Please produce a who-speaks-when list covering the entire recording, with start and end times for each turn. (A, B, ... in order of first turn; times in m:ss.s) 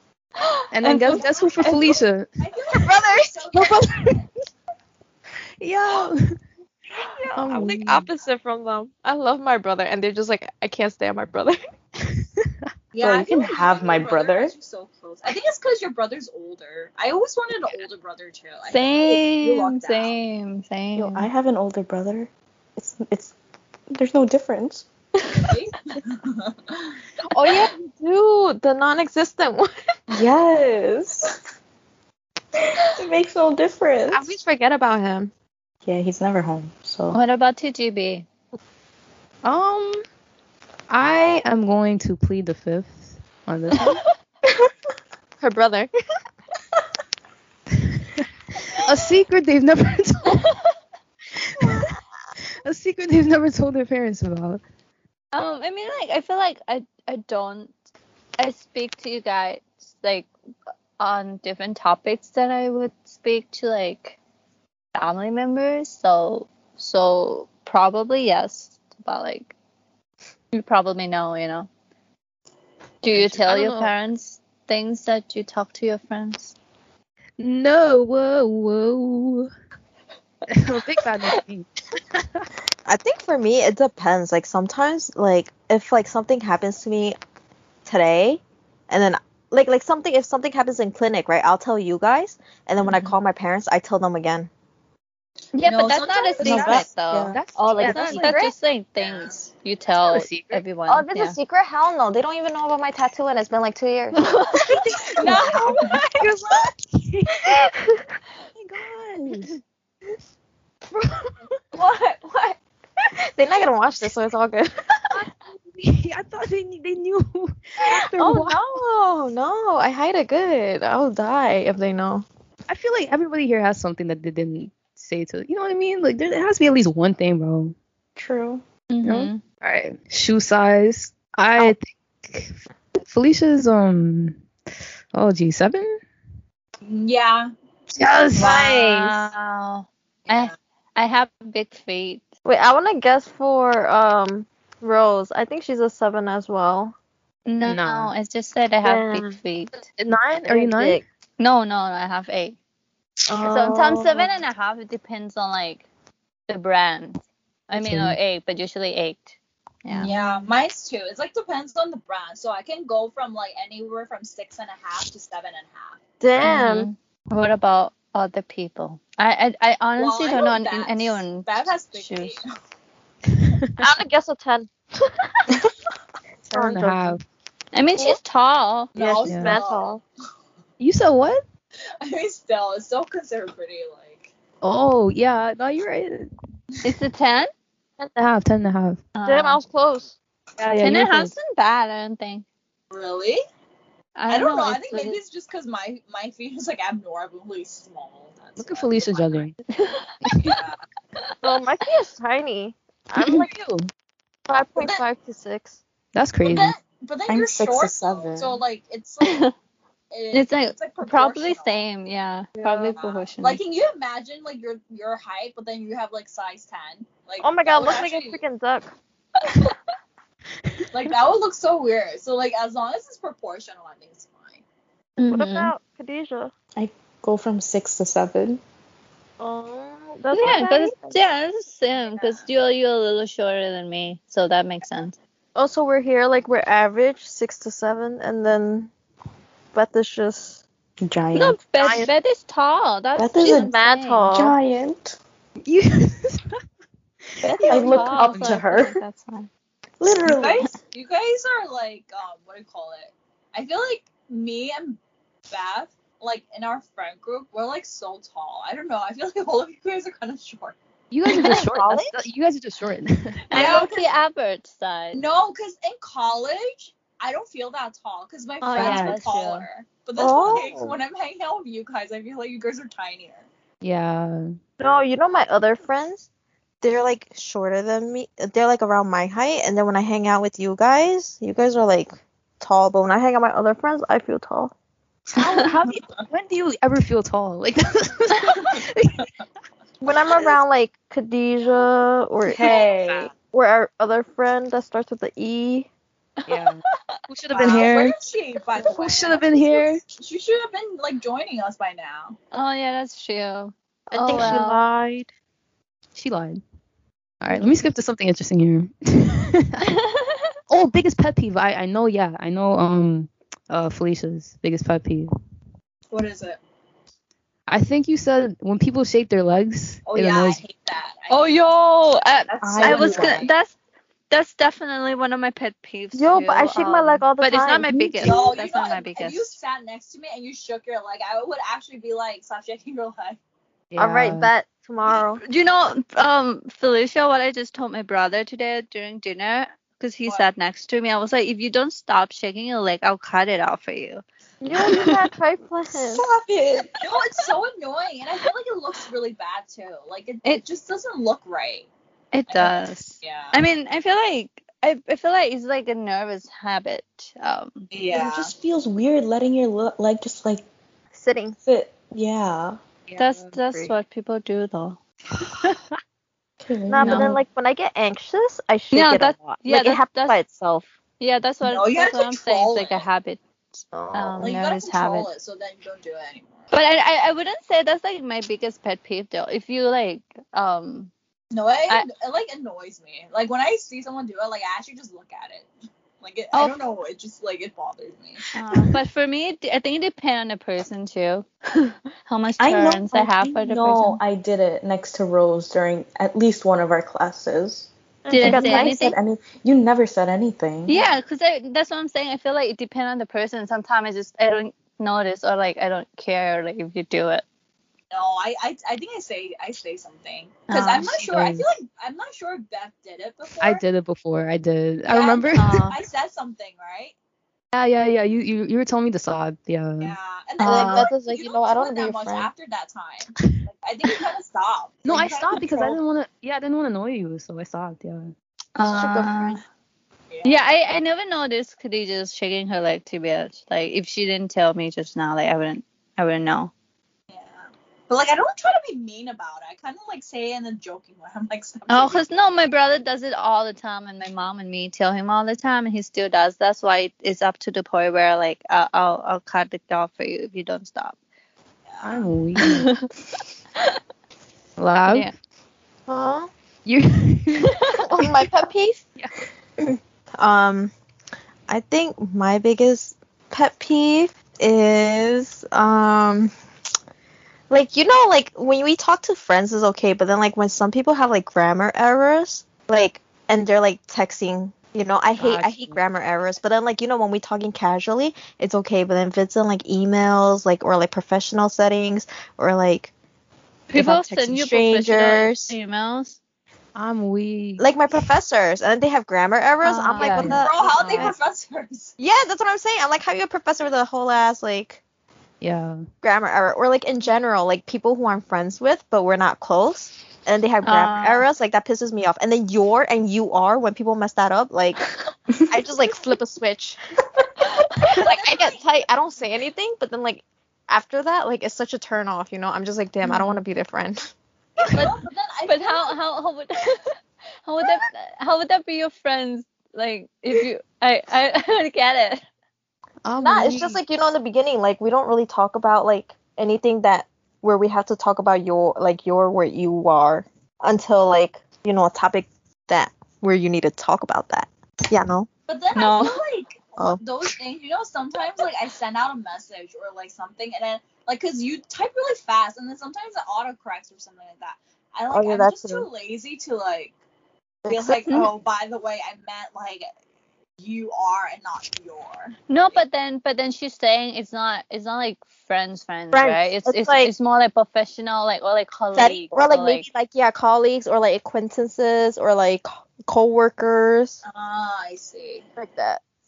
0:00.4-0:01.9 A
0:00.7-0:02.3 B
0:02.4-0:03.8 C
0:02.8-0:03.5 D
0:03.5-0:04.2 B
0:05.6-0:06.4 B
0:07.0-0:11.6 D
0:07.3-0:08.1 B
0:12.0-0:12.4 B
0:12.9-0:20.2 C
0:13.0-0:14.5 E
0:18.7-0:21.3 A
0:20.9-0:23.3 E
0:23.9-0:25.4 E
0:25.4-0:27.0 C
0:27.3-0:29.7 D
0:30.1-0:31.3 E
0:32.8-0:34.3 E
0:34.1-0:35.3 D
0:35.8-0:37.2 E
0:37.1-0:38.2 A
0:39.4-0:40.0 B
0:40.9-0:44.0 B
0:45.4-0:45.9 D
0:47.9-0:50.5 B
0:51.4-0:51.9 B
0:52.6-0:54.6 B
0:55.3-0:57.7 A
0:58.4-1:00.3 A
1:01.0-1:04.2 A
1:04.9-1:09.5 A
1:10.5-1:11.7 A
1:13.0-1:16.6 A
1:13.1-1:13.9 B
1:17.4-1:19.5 B
1:20.5-1:22.5 B
1:22.8-1:27.2 D
1:27.8-1:34.5 D
1:32.8-1:33.1 A
1:35.5-1:41.4 A
1:35.6-1:36.9 C
1:36.4-1:37.4 E
1:36.5-1:36.8 D
1:37.3-1:38.4 B
1:37.8-1:38.5 D
1:39.0-1:39.4 C
1:39.9-1:40.6 B
1:40.9-1:44.3 D
1:44.1-1:46.2 A
1:44.7-1:47.7 B
1:45.0-1:45.5 D
1:45.1-1:46.1 C
1:48.5-1:49.6 B
1:51.8-1:52.5 D
1:53.3-1:54.8 D
1:55.1-1:58.6 B
1:57.8-2:02.2 D
2:02.7-2:07.7 B
2:08.2-2:08.6 E
2:08.9-2:09.4 A
2:09.0-2:14.4 B
2:15.1-2:16.0 B
2:16.8-2:17.5 C
2:17.9-2:19.2 B
2:18.4-2:22.2 A
2:20.2-2:20.5 C
2:22.4-2:26.9 D
2:27.4-2:29.8 A
2:27.6-2:28.1 B
2:28.8-2:29.4 D
2:29.9-2:31.0 B
2:30.5-2:31.0 D
2:31.4-2:32.6 A
2:33.3-2:34.4 D
2:33.4-2:35.9 A
2:36.5-2:39.3 A
2:37.7-2:38.2 B
2:39.8-2:40.5 A
2:40.0-2:46.0 C
2:46.2-2:46.9 D
2:46.4-2:52.4 A
2:50.0-2:52.5 C
2:53.3-2:53.9 B
2:53.8-2:55.1 D
2:56.5-2:57.2 B
2:56.5-2:57.2 D
2:57.7-2:58.9 A
2:58.9-3:00.0 C
2:59.0-3:00.0 D
2:59.2-2:59.6 B
3:00.8-3:01.4 B
3:02.0-3:04.3 C
3:04.6-3:06.3 B
3:06.8-3:07.5 A
3:08.1-3:09.1 B
3:09.1-3:09.6 A
3:09.2-3:10.1 D
3:10.6-3:11.3 B
3:10.8-3:12.4 A
3:12.9-3:13.4 C
3:14.2-3:15.2 A
3:14.3-3:19.5 C
3:18.6-3:19.6 B
3:19.7-3:20.6 A
3:20.2-3:20.6 B
3:20.4-3:20.8 C
3:21.4-3:23.5 D
3:23.2-3:23.9 B
3:24.5-3:25.8 D
3:26.1-3:26.8 B
3:26.4-3:29.5 C
3:27.3-3:28.6 E
3:29.2-3:29.5 A
3:30.1-3:31.8 C
3:30.3-3:33.6 A
3:32.6-3:32.9 D
3:32.9-3:38.4 C
3:37.4-3:38.9 D
3:40.9-3:44.6 C
3:45.2-3:45.7 A
3:45.3-3:46.5 D
3:46.8-3:48.6 E
3:49.4-3:51.2 D
3:50.3-3:55.2 A
3:52.0-3:52.5 C
3:55.5-3:58.9 D
3:59.7-4:00.6 D
4:01.0-4:01.6 E
4:01.3-4:04.3 A
4:01.8-4:02.1 D
4:03.2-4:03.7 E
4:03.4-4:04.6 D
4:04.3-4:05.2 E
4:05.6-4:06.5 B
4:07.4-4:09.0 E
4:07.6-4:07.8 D
4:07.6-4:09.5 A
4:10.0-4:10.7 E
4:10.2-4:15.0 C
4:15.5-4:20.8 C
4:21.1-4:23.8 B
4:21.3-4:21.6 A
4:21.3-4:22.2 D
4:23.5-4:24.1 C
4:23.5-4:25.2 A
4:25.1-4:33.5 C
4:28.6-4:29.7 A
4:30.2-4:31.0 D
4:33.8-4:34.4 B
4:34.8-4:36.3 D
4:36.8-4:44.7 D
4:45.3-4:49.3 B
4:50.0-4:52.8 D
4:52.4-4:53.3 E
4:53.5-4:55.9 D
4:56.4-4:57.2 A
4:56.5-4:58.2 B
4:57.5-5:02.4 C
4:58.8-5:00.0 B
5:02.5-5:04.8 A
5:04.1-5:05.3 D
5:06.1-5:06.6 B
5:07.4-5:09.9 B
5:09.8-5:10.4 A
5:10.7-5:15.3 B
5:16.1-5:16.6 C
5:17.7-5:20.6 B
5:20.0-5:21.6 C
5:21.3-5:23.7 A
5:22.5-5:23.5 C
5:22.6-5:23.4 E
5:24.3-5:29.6 A
5:26.1-5:28.4 D
5:28.2-5:33.4 C
5:33.9-5:34.5 B
5:34.0-5:35.4 D
5:35.1-5:44.2 A
5:44.6-5:46.2 D
5:44.8-5:45.3 A
5:45.9-5:46.9 E
5:47.0-5:51.9 C
5:52.3-5:57.9 A
5:52.5-5:53.6 C
5:57.9-5:58.5 C
5:58.1-6:00.6 E
6:01.1-6:01.6 D
6:01.6-6:02.8 E
6:03.1-6:03.8 B
6:03.2-6:05.0 A
6:06.6-6:07.4 E
6:06.9-6:10.9 D
6:07.0-6:07.3 A
6:08.9-6:10.4 A
6:11.2-6:15.3 A
6:11.6-6:13.0 C
6:13.9-6:14.5 D
6:14.4-6:16.7 C
6:16.7-6:21.1 A
6:21.5-6:25.7 C
6:26.2-6:28.5 C
6:26.5-6:26.8 A
6:28.5-6:34.2 A
6:32.6-6:41.0 E
6:38.2-6:39.1 D
6:38.3-6:39.2 A
6:40.9-6:47.4 A
6:48.1-6:53.8 C
6:50.7-6:51.1 A
6:51.1-6:51.6 B
6:53.6-6:55.9 B
6:55.1-6:57.1 C
6:55.5-6:56.0 A
6:57.7-7:00.2 B
7:00.0-7:06.0 C
7:00.6-7:01.1 A
7:00.6-7:02.5 D
7:05.0-7:08.3 B
7:08.8-7:09.6 A
7:08.9-7:09.5 D
7:10.3-7:10.6 C
7:10.4-7:16.7 A
7:17.3-7:22.2 C
7:21.9-7:31.2 A
7:31.9-7:32.3 C
7:32.0-7:33.0 B
7:32.6-7:33.1 A
7:34.8-7:35.3 B
7:36.1-7:36.5 D
7:36.8-7:38.3 B
7:37.9-7:39.0 D
7:39.8-7:40.9 D
7:41.7-7:46.5 D
7:47.7-8:03.1 D
7:55.4-7:56.0 B
8:03.9-8:06.4 A
8:03.9-8:05.7 D
8:06.9-8:07.9 B
8:07.8-8:11.3 D
8:09.8-8:11.3 A
8:10.2-8:10.6 B
8:10.4-8:12.1 C
8:12.2-8:15.0 D
8:15.6-8:16.0 B
8:16.2-8:25.1 D
8:20.8-8:21.4 A
8:25.7-8:27.0 D
8:28.1-8:34.3 D
8:28.1-8:28.8 C
8:33.2-8:33.6 A
8:34.9-8:36.2 C
8:35.7-8:42.4 A
8:43.2-8:44.0 B
8:43.4-8:55.5 D
8:55.7-9:07.1 C
8:55.9-8:56.4 A
9:05.3-9:06.1 D
9:07.8-9:08.4 D
9:07.8-9:10.1 C
9:10.8-9:13.0 C
9:12.7-9:20.0 A
9:16.3-9:17.3 D
9:19.1-9:24.4 D
9:24.4-9:25.7 C
9:25.8-9:26.2 D